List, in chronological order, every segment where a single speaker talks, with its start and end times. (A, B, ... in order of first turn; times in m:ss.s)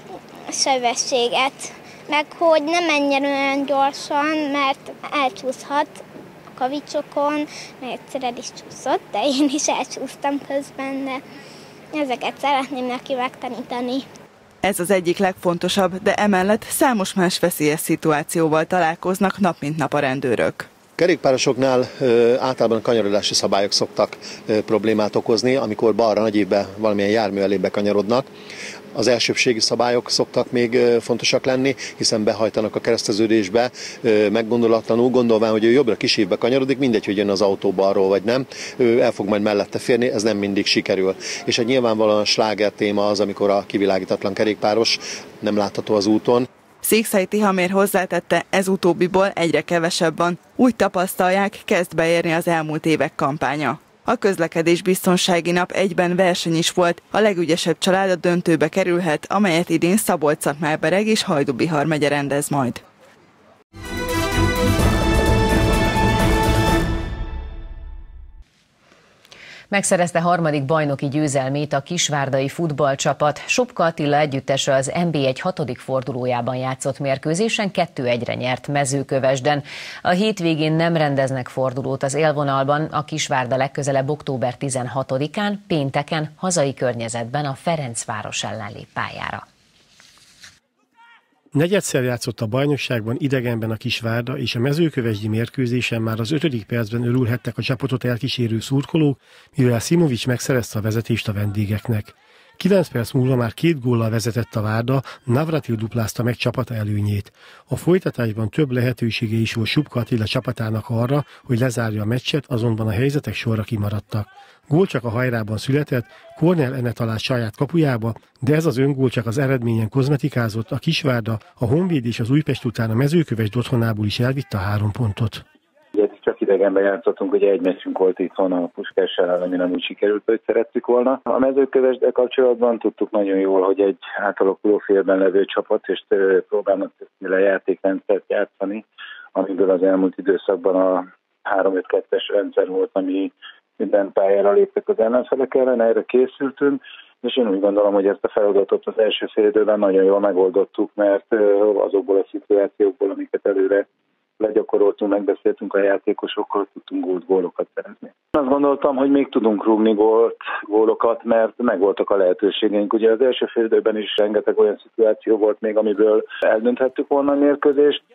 0:00.5-0:06.0 A
0:06.6-0:11.2 A
0:11.9-0:14.1 A
0:14.6-0:20.7 B
0:21.0-0:28.3 C
0:28.9-0:46.5 C
0:46.8-1:02.8 B
1:09.7-1:29.4 D
1:31.5-2:05.4 E
2:05.9-2:18.8 F
2:19.4-2:33.8 F
2:34.4-2:48.0 F